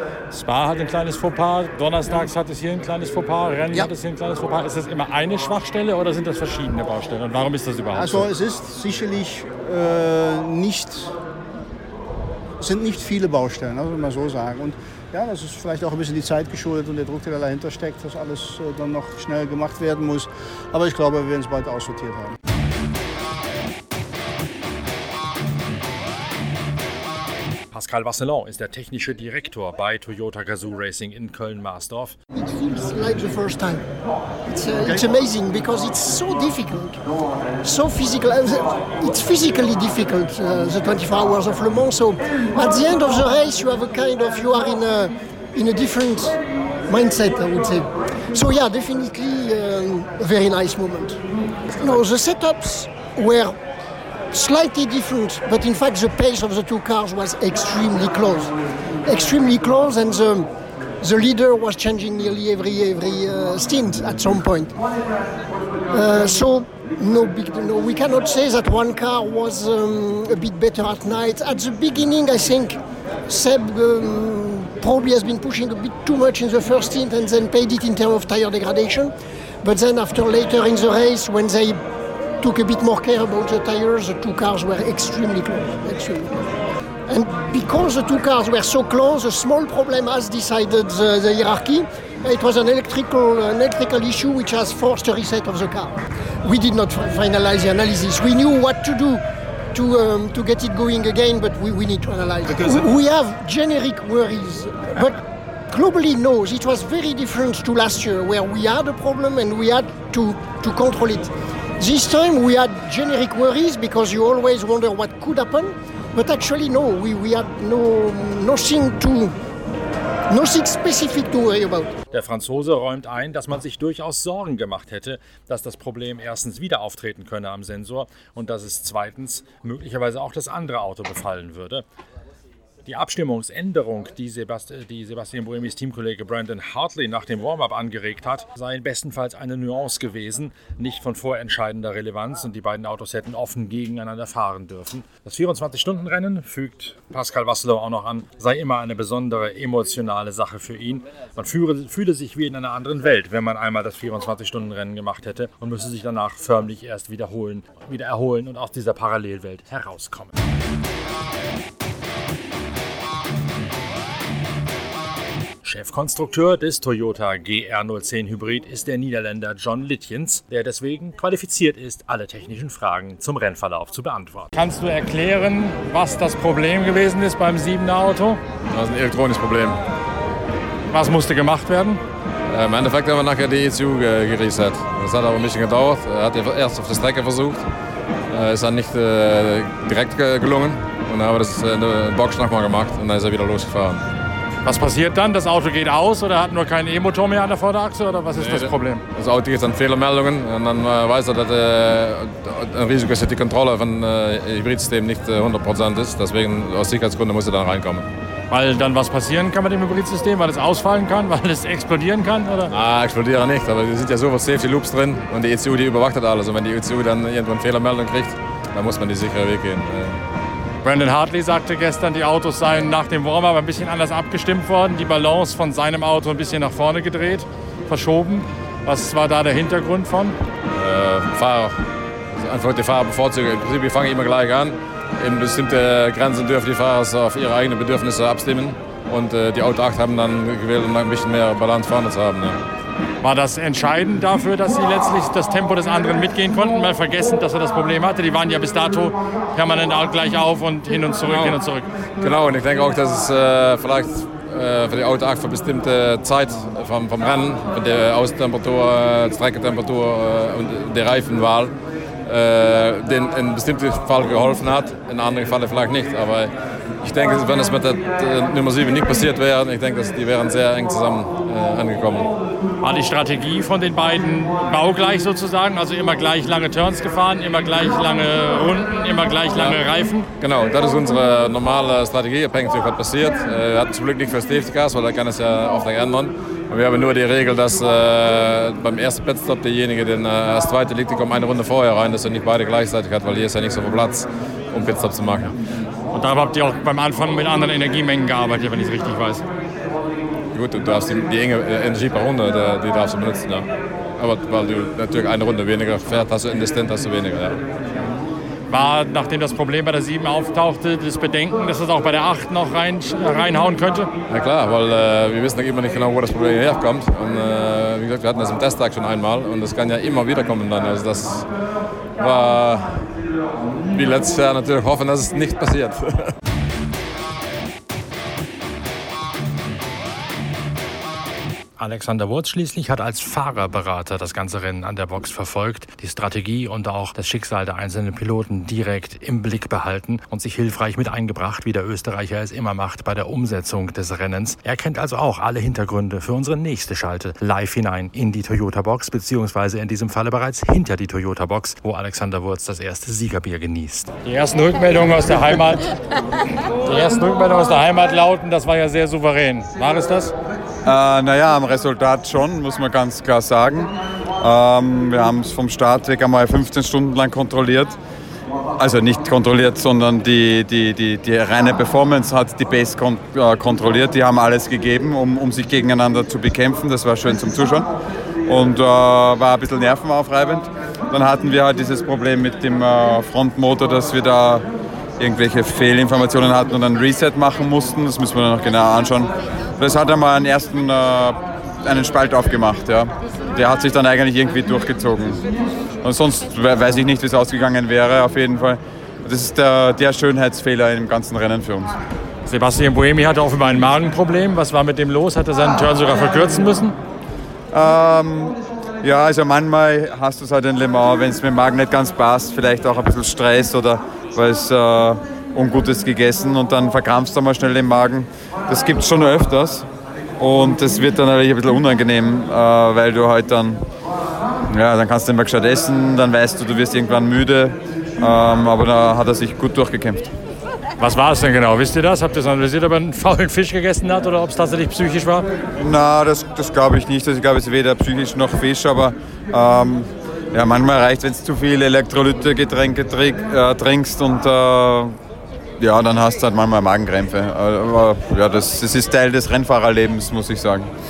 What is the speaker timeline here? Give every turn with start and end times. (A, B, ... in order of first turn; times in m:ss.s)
0:00.3-0:08.3 A
0:07.9-0:11.1 B
0:12.6-0:22.4 B
0:27.7-0:32.1 C
0:32.3-0:33.8 D
0:34.5-0:37.0 D
0:37.6-0:51.2 D
0:51.7-0:53.5 D
0:54.3-0:58.5 D
0:59.0-1:00.5 D
1:01.0-1:04.7 D
1:05.9-1:21.8 D
1:22.4-1:26.3 D
1:27.1-1:59.3 D
2:00.3-2:01.9 D
2:02.1-2:11.8 C
2:12.8-2:40.4 C
2:45.6-2:54.5 C
2:54.5-2:58.4 A
2:58.7-2:59.8 E
3:00.9-3:02.0 A
3:02.5-3:07.7 E
3:08.3-3:14.0 E
3:14.6-3:19.0 A
3:18.3-3:28.1 E
3:28.5-3:32.7 A
3:32.7-3:40.2 E
3:40.8-3:50.4 A
3:50.7-3:51.8 E
3:52.3-4:02.6 E
4:03.2-4:11.8 A
4:11.2-4:11.6 E
4:12.2-4:32.3 E
4:32.8-4:40.3 A
4:40.4-4:55.6 E
4:56.1-4:59.4 A
5:00.5-5:07.6 E
5:08.7-5:14.1 A
5:14.3-5:21.5 E
5:22.2-5:23.1 E
5:23.9-5:26.3 E
5:31.8-5:54.1 C
5:54.2-5:55.9 A
5:56.8-6:00.3 A
6:00.8-6:08.0 F
6:08.8-6:17.9 F
6:18.4-6:24.6 F
6:25.2-6:35.4 F
6:36.0-6:41.9 F
6:42.4-6:47.0 A
6:47.7-6:59.9 F
7:00.4-7:03.8 F
7:04.7-7:10.3 F
7:11.0-7:15.4 A
7:15.8-7:25.2 F
7:25.8-7:30.9 F